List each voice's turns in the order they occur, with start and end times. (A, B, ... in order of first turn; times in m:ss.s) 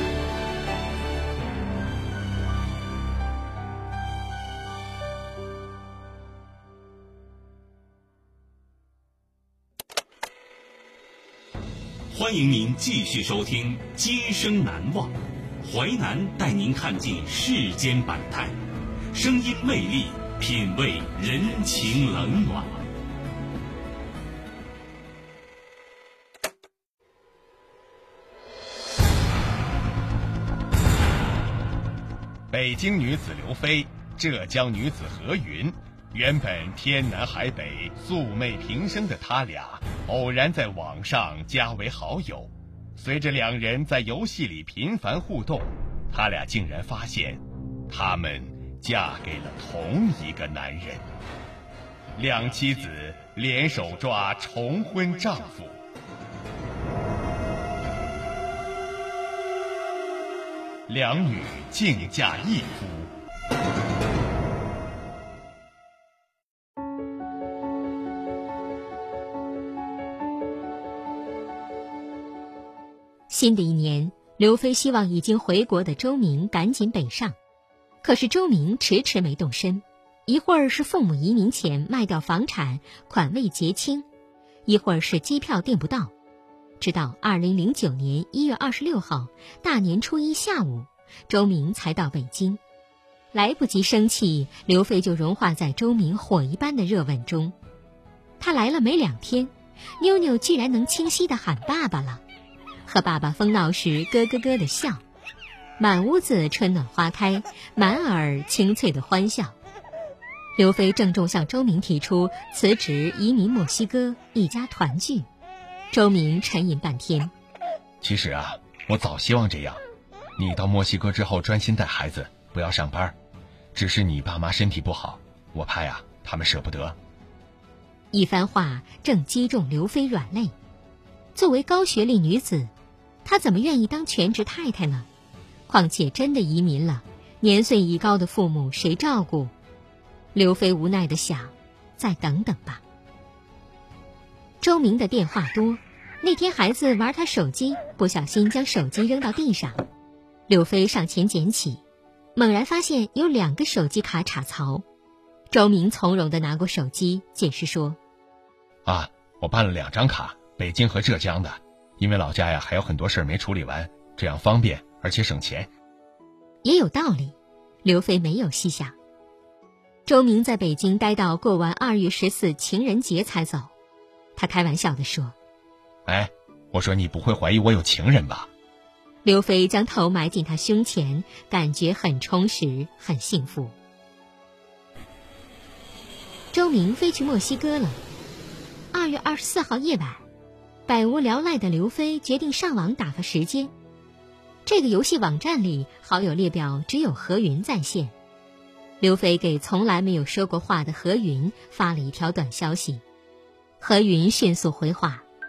0:12.1-0:18.6 A
0:19.1-0:22.8 A
0:32.5-0:51.1 B
0:52.2-0:55.8 B
1:00.9-1:03.1 B
1:13.3-1:17.4 C
1:18.0-1:24.1 C
1:24.7-1:26.1 C
1:26.8-1:32.6 C
1:33.3-1:37.5 C
1:38.4-1:42.2 C
1:42.9-1:45.0 C
1:45.8-1:49.6 C
1:50.6-1:55.3 C
1:55.9-1:57.3 C
1:58.0-1:59.8 B
2:00.4-2:03.2 B
2:03.8-2:07.0 B
2:08.1-2:10.5 C
2:11.4-2:12.7 C
2:13.2-2:15.1 C
2:15.7-2:19.5 C
2:20.4-2:22.8 C
2:24.6-2:29.8 C
2:30.5-2:31.8 C
2:32.4-2:34.8 C
2:35.5-2:38.0 C
2:38.8-2:45.7 B
2:46.6-2:49.0 C
2:50.1-2:53.7 C
2:54.4-2:55.4 C
2:56.1-2:58.5 B
2:59.2-3:03.8 C
3:06.5-3:08.0 C
3:08.9-3:10.2 C
3:10.9-3:13.7 C
3:14.7-3:18.1 C
3:19.0-3:23.0 C
3:23.8-3:25.2 C